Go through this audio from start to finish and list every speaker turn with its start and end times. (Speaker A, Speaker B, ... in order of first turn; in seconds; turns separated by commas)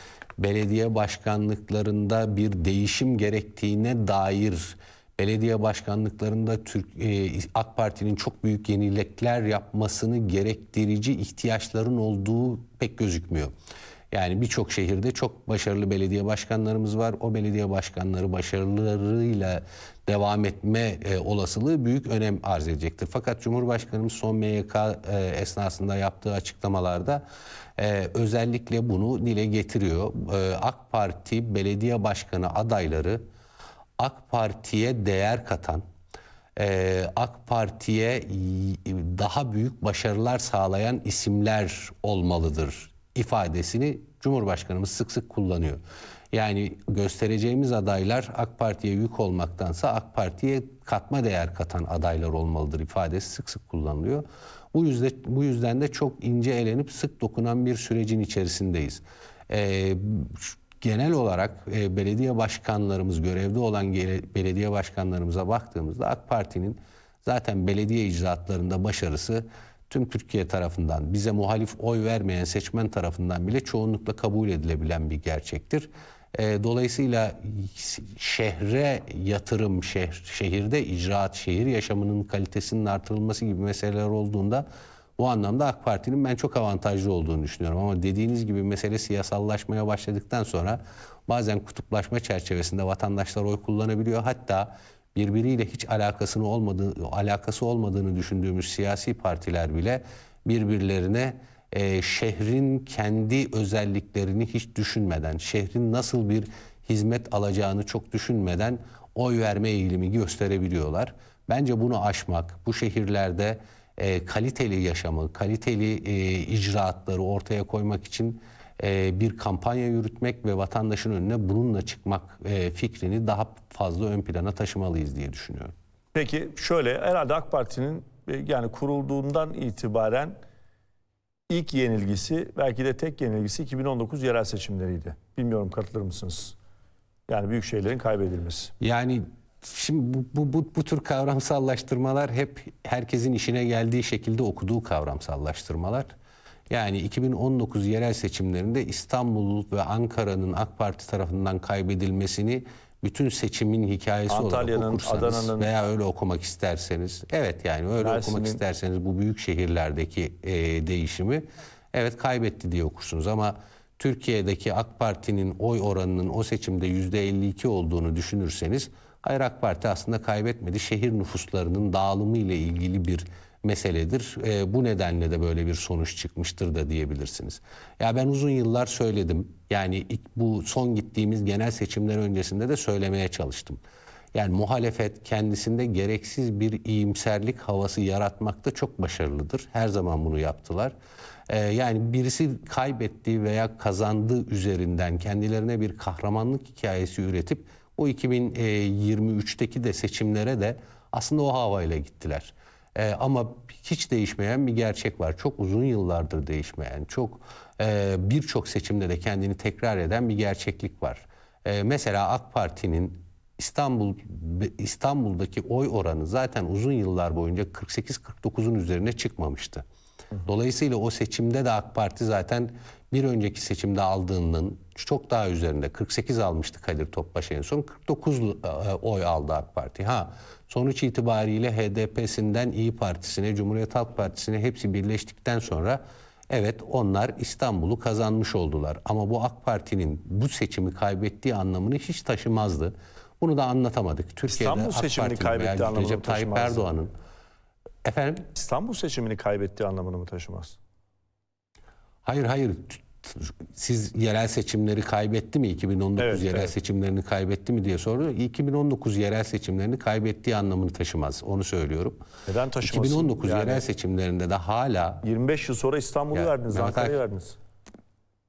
Speaker A: 0.4-13.5, Speaker A: 14.1-27.2, Speaker A: 27.8-33.2, Speaker A: 34.0-35.8, Speaker A: 36.6-45.8, Speaker A: 46.3-84.7, Speaker A: 85.2-125.7, Speaker B: 126.1-130.4, Speaker B: 131.5-136.6, Speaker B: 137.3-138.7, Speaker A: 138.8-146.1, Speaker A: 146.7-183.8, Speaker B: 154.3-155.7, Speaker B: 158.0-158.6, Speaker A: 184.3-190.9, Speaker A: 191.5-219.8, Speaker A: 220.4-247.1, Speaker B: 244.5-246.9, Speaker A: 248.0-248.5, Speaker B: 248.6-250.8, Speaker A: 252.2-262.2, Speaker B: 256.2-256.7, Speaker B: 262.5-263.9, Speaker A: 262.8-265.2, Speaker B: 265.2-267.6, Speaker A: 266.3-267.2